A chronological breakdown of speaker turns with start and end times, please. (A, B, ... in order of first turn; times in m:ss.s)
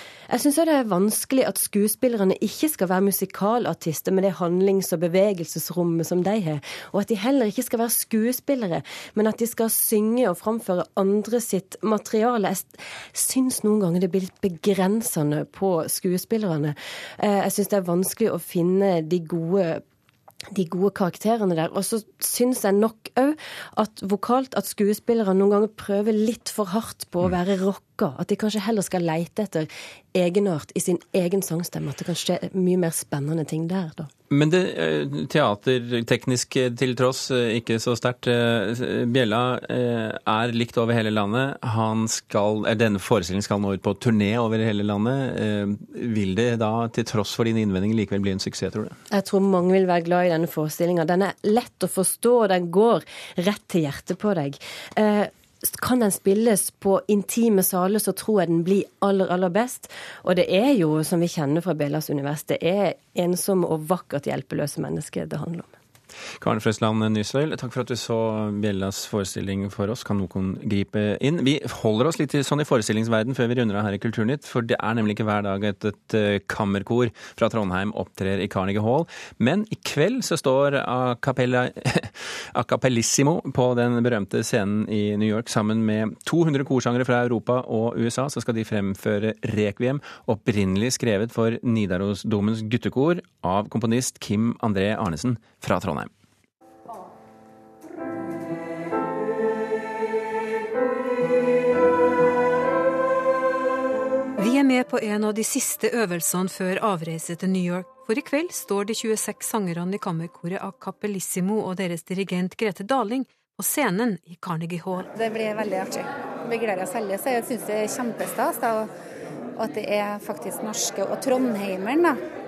0:00.3-0:19.8 A
0:20.5-0:34.1 A
0:34.3-0:49.0 B
0:49.1-1:05.7 A
1:06.4-1:36.1 B
1:44.4-1:55.1 C
1:55.1-1:58.9 D
1:59.6-2:02.2 D